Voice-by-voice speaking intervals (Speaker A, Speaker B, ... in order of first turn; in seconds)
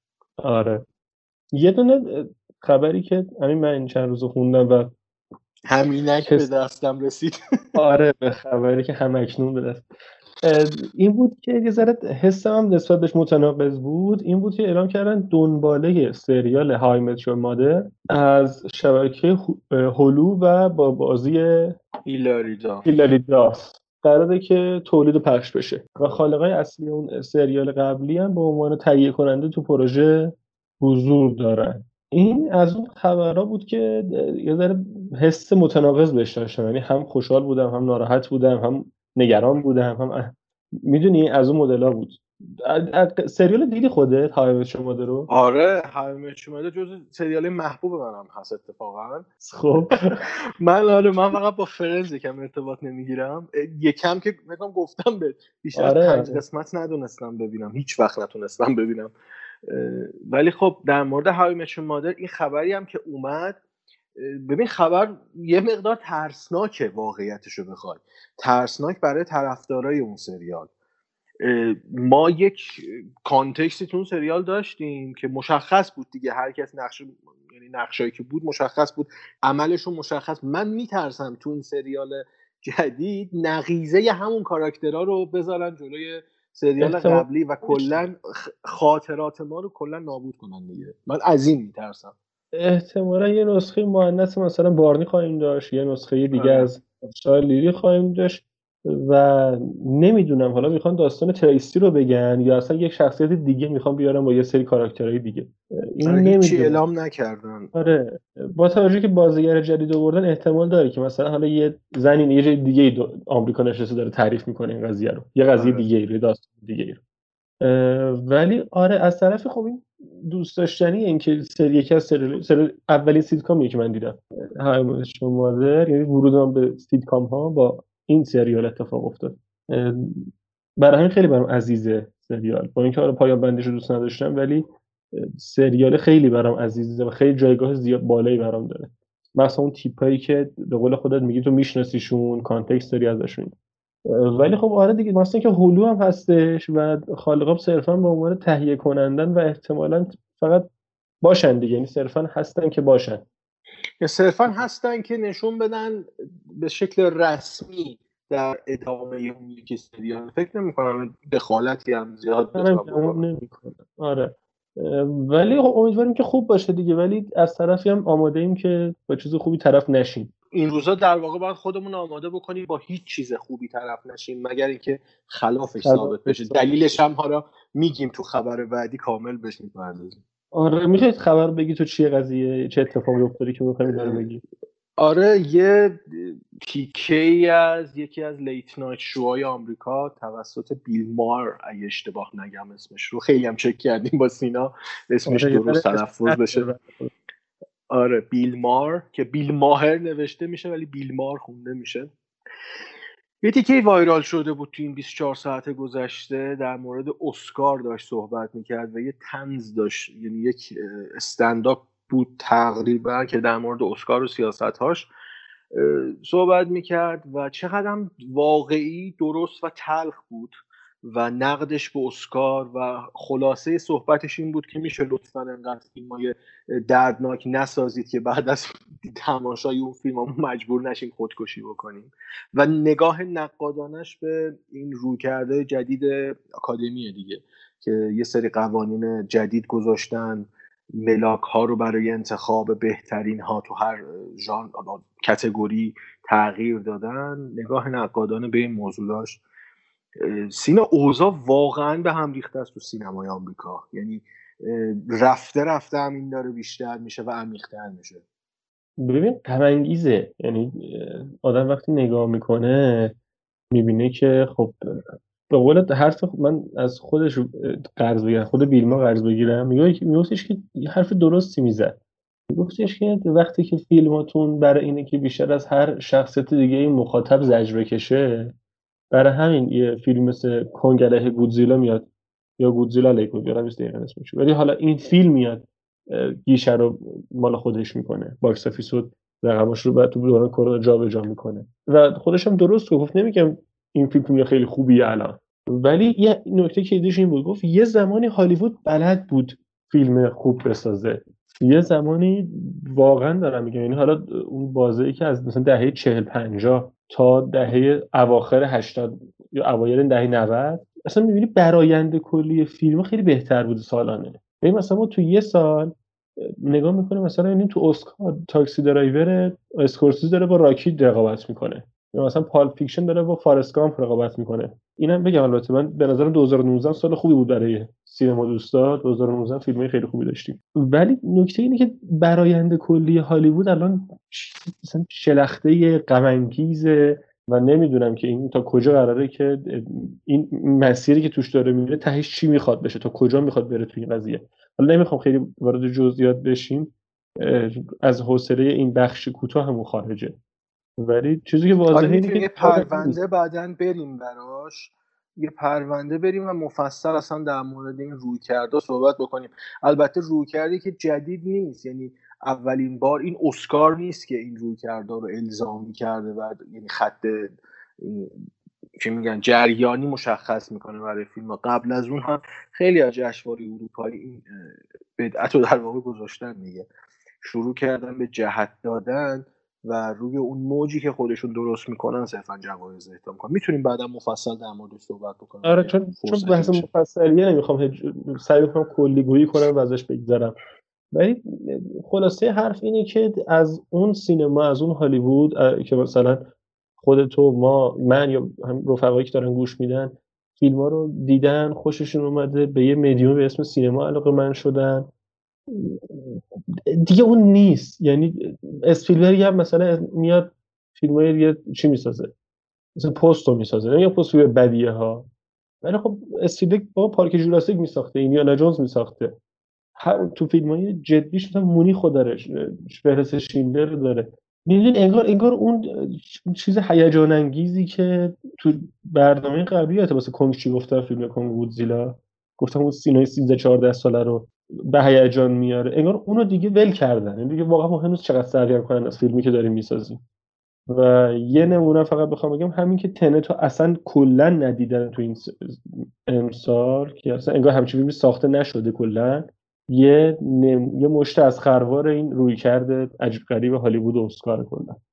Speaker A: 0.4-0.8, 1.5-5.0, 7.8-9.8, 10.4-21.8, 22.9-45.3, 49.4-50.2, 55.8-56.4, 86.8-88.0, 92.5-106.8, 107.7-117.0, 117.6-143.6, 144.1-150.7, 151.2-153.2, 162.6-170.3, 175.8-176.6, 180.5-184.4, 195.3-197.1, 259.0-263.1, 263.7-264.8, 265.5-278.5, 279.1-282.1, 282.6-350.4, 351.0-353.2, 385.6-390.6, 391.1-396.4, 397.0-405.1, 405.7-412.3, 413.0-415.3, 415.8-419.4, 420.0-440.2, 440.9-455.0
Speaker B: 5.7-7.4, 22.1-22.9, 45.3-49.3, 50.6-59.1, 59.7-63.6, 64.2-70.7, 71.4-92.1, 96.3-96.7, 106.0-107.7, 115.6-115.9, 154.0-163.2, 170.5-180.2, 183.9-184.2, 185.0-196.7, 197.9-202.1, 203.4-215.1, 215.7-249.4, 250.2-258.2, 351.9-368.4, 369.0-376.9, 377.4-386.9